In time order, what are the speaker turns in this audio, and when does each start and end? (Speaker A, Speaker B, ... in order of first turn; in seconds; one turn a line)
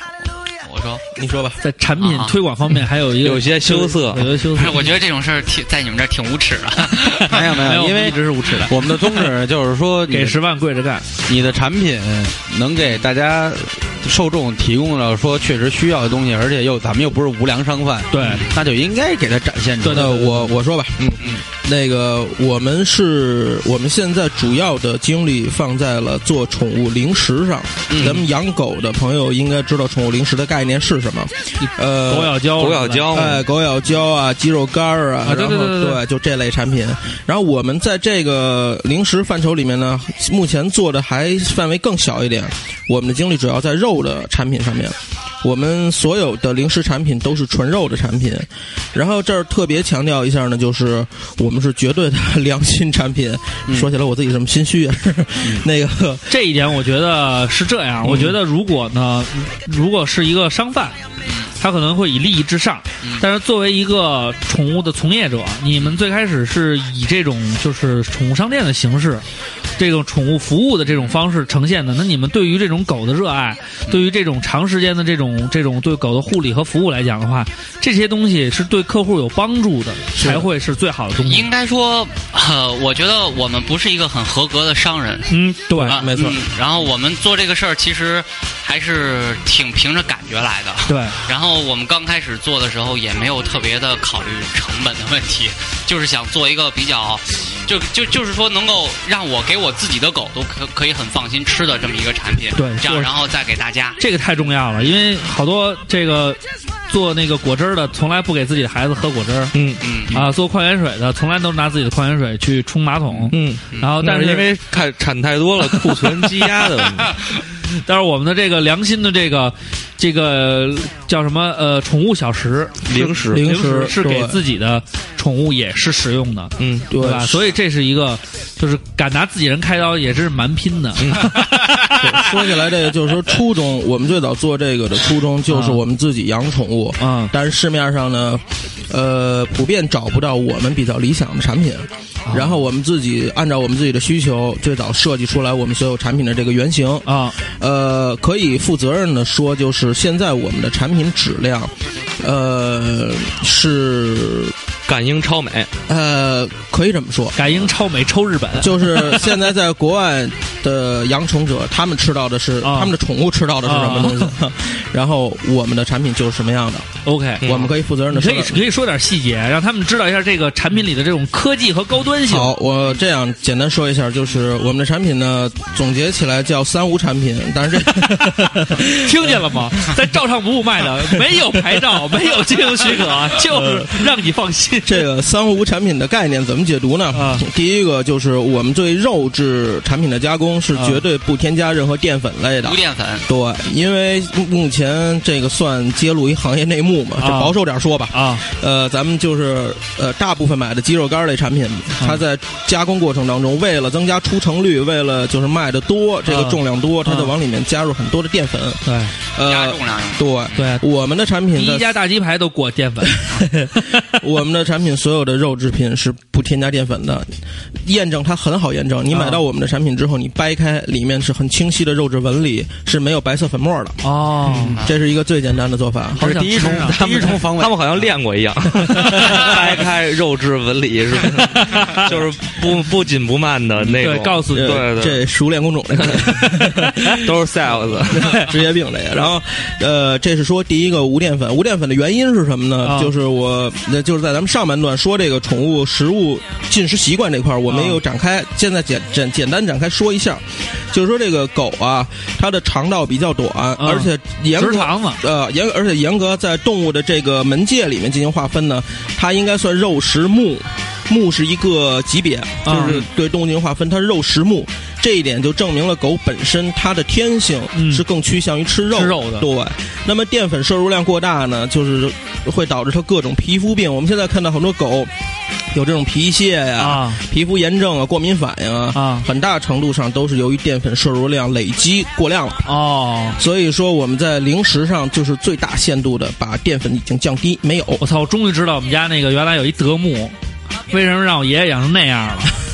Speaker A: 0.6-1.0
Speaker B: 1.1-1.6
Speaker C: 1.6-4.9
Speaker A: 2.0-2.4
Speaker D: 3.2-4.3
Speaker A: 4.5-7.4
Speaker C: 7.1-9.3
Speaker E: 7.2-10.4
Speaker C: 10.1-11.1
Speaker E: 11.3-20.3
Speaker C: 18.1-18.4
Speaker C: 19.8-20.5
Speaker B: 19.9-32.4
Speaker E: 21.0-21.4
Speaker E: 27.9-28.2
Speaker C: 31.6-33.2
Speaker D: 32.6-33.4
Speaker B: 33.1-56.3
Speaker C: 35.2-36.0
Speaker C: 56.3-61.0
Speaker E: 58.0-58.3
Speaker C: 61.6-69.2
Speaker C: 69.8-81.5
Speaker A: 70.8-71.1
Speaker B: 80.1-80.5
Speaker A: 81.2-104.0
Speaker C: 85.3-86.0
Speaker B: 85.9-86.4
Speaker C: 90.9-91.2
Speaker C: 102.5-103.1
Speaker C: 104.0-106.4
Speaker C: 106.9-109.5
Speaker D: 109.5-109.8
Speaker A: 109.8-110.2
Speaker C: 110.1-114.5
Speaker D: 113.3-117.2
Speaker C: 115.7-116.2
Speaker C: 117.8-122.8
Speaker D: 122.8-123.4
Speaker B: 122.9-124.4
Speaker C: 123.3-132.2
Speaker D: 126.6-126.9
Speaker B: 126.9-127.5
Speaker D: 131.0-131.5
Speaker B: 131.9-154.5
Speaker C: 135.5-135.8
Speaker C: 137.0-137.3
Speaker C: 142.2-142.6
Speaker C: 147.1-147.4
Speaker D: 154.9-155.7
Speaker B: 155.9-157.6
Speaker C: 157.3-159.3
Speaker B: 158.6-166.9
Speaker C: 162.6-162.9
Speaker C: 163.6-164.3
Speaker C: 167.0-167.6
Speaker B: 167.4-168.6
Speaker D: 167.4-167.7
Speaker C: 168.1-172.6
Speaker B: 172.2-179.5
Speaker C: 178.8-185.0
Speaker B: 183.5-183.9
Speaker B: 184.8-208.8
Speaker C: 187.1-187.4
Speaker C: 190.7-191.0
Speaker A: 192.6-193.2
Speaker C: 197.2-197.6
Speaker C: 198.1-198.4
Speaker C: 206.3-207.3
Speaker C: 208.8-209.1
Speaker B: 209.3-212.0
Speaker A: 209.4-210.6
Speaker C: 210.6-210.8
Speaker C: 211.5-213.2
Speaker B: 213.3-224.0
Speaker C: 219.1-219.4
Speaker C: 224.0-224.8
Speaker B: 224.8-226.2
Speaker C: 226.2-227.4
Speaker E: 226.2-227.8
Speaker D: 227.2-235.2
Speaker C: 228.9-229.4
Speaker C: 231.3-232.1
Speaker C: 233.9-234.8
Speaker B: 234.5-237.3
Speaker D: 236.0-236.4
Speaker D: 237.0-238.4
Speaker B: 238.1-275.1
Speaker C: 242.8-243.1
Speaker C: 247.7-248.0
Speaker C: 253.8-255.2
Speaker C: 262.6-263.0
Speaker C: 267.7-268.0
Speaker C: 268.9-269.5
Speaker B: 275.7-282.7
Speaker C: 276.8-277.2
Speaker C: 278.9-279.2
Speaker C: 282.6-283.4
Speaker B: 283.4-288.0
Speaker C: 288.0-290.3
Speaker C: 290.9-292.5